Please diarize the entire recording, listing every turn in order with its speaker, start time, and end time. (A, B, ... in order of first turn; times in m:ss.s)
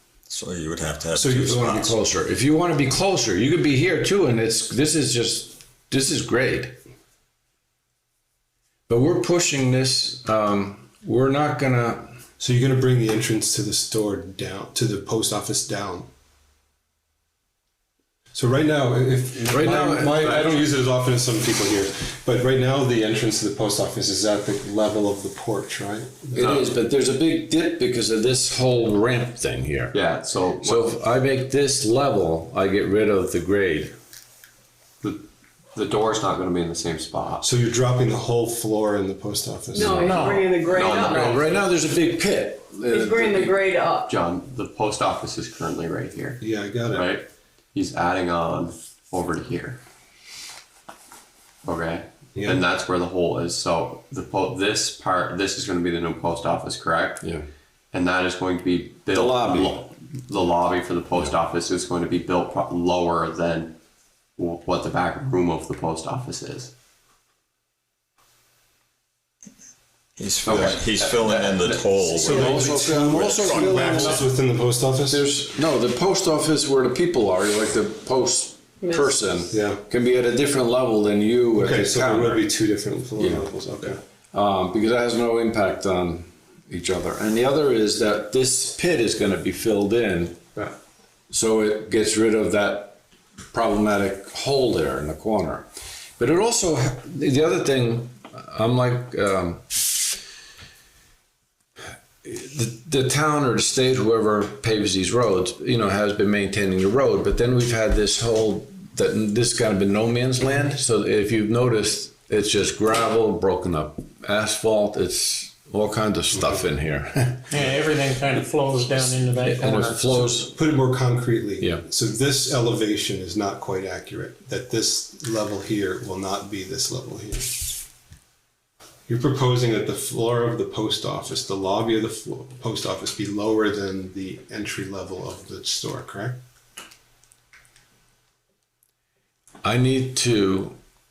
0:00.3-0:02.0 A
0:01.2-0:01.8 B
0:01.5-0:06.8 C
0:08.9-0:12.2 C
0:12.4-0:16.1 B
0:18.3-0:26.6 B
0:19.5-0:20.7 C
0:26.4-0:30.0 C
0:26.4-0:26.8 D
0:29.9-0:30.9 D
0:30.6-0:34.0 C
0:35.8-0:37.4 D
0:37.4-0:40.4 B
0:39.7-0:41.4 E
0:39.9-0:40.5 F
0:40.6-0:41.8 D
0:41.0-0:43.6 C
0:42.9-0:44.1 E
0:44.1-0:49.8 D
0:46.4-0:47.1 B
0:51.6-0:57.2 D
0:52.4-0:52.6 B
0:57.9-1:03.8 D
0:59.1-0:59.8 C
1:04.4-1:06.7 D
1:10.2-1:14.2 A
1:10.4-1:12.5 D
1:12.2-1:15.2 B
1:12.3-1:14.2 C
1:15.1-1:22.5 C
1:18.8-1:19.2 E
1:19.5-1:19.8 B
1:21.6-1:24.0 B
1:23.2-1:23.5 C
1:24.3-1:30.7 C
1:31.3-1:33.0 C
1:33.5-1:35.7 C
1:36.2-1:39.7 C
1:42.2-1:57.6 C
1:56.3-1:56.7 B
1:57.5-2:00.4 F
1:59.4-2:00.6 C
2:00.4-2:07.7 B
2:01.6-2:01.8 C
2:09.1-2:16.4 B
2:19.6-2:20.8 C